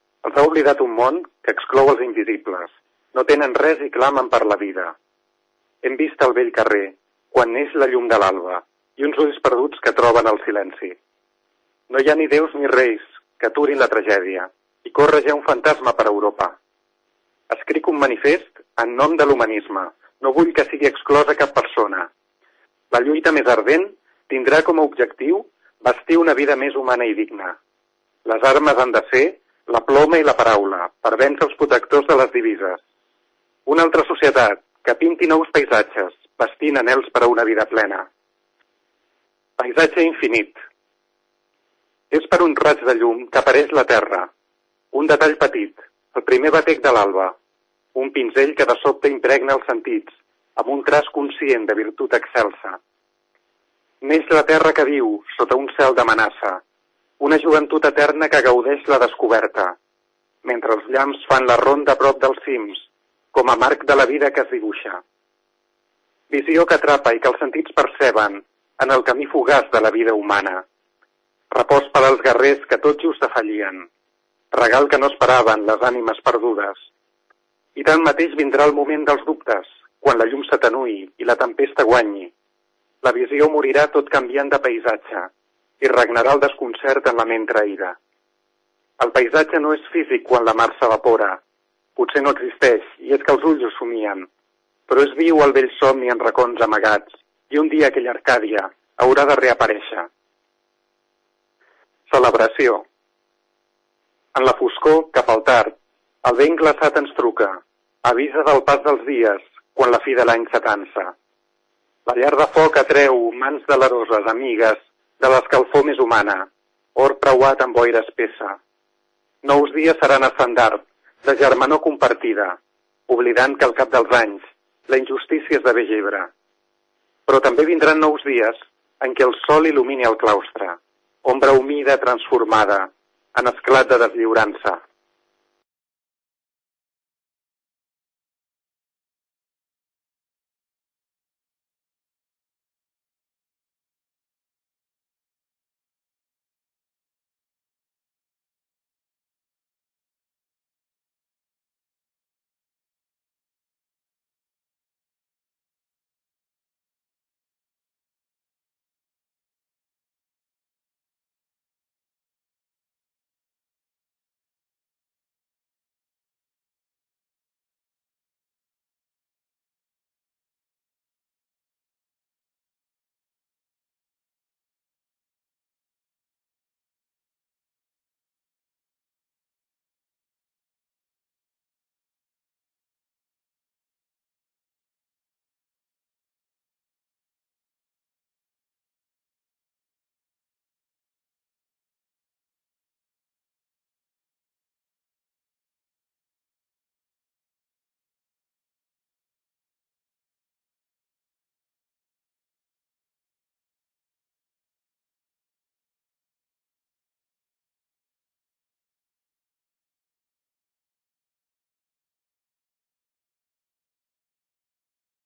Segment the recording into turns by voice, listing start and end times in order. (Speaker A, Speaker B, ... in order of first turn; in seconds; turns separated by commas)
Speaker A: 0.2-5.0, Speaker A: 5.8-11.0, Speaker A: 11.9-16.6, Speaker A: 17.5-22.1, Speaker A: 22.9-27.6, Speaker A: 28.2-32.8, Speaker A: 33.6-38.1, Speaker A: 39.6-40.6, Speaker A: 42.1-44.3, Speaker A: 44.9-47.4, Speaker A: 47.9-52.8, Speaker A: 54.0-56.6, Speaker A: 57.2-59.8, Speaker A: 60.4-65.0, Speaker A: 66.3-70.6, Speaker A: 71.5-73.9, Speaker A: 74.5-76.8, Speaker A: 77.7-82.3, Speaker A: 83.0-88.0, Speaker A: 89.0-91.4, Speaker A: 92.0-94.3, Speaker A: 94.9-100.1, Speaker A: 102.1-102.8, Speaker A: 104.3-111.1, Speaker A: 112.0-118.6, Speaker A: 119.4-126.3, Speaker A: 127.3-134.8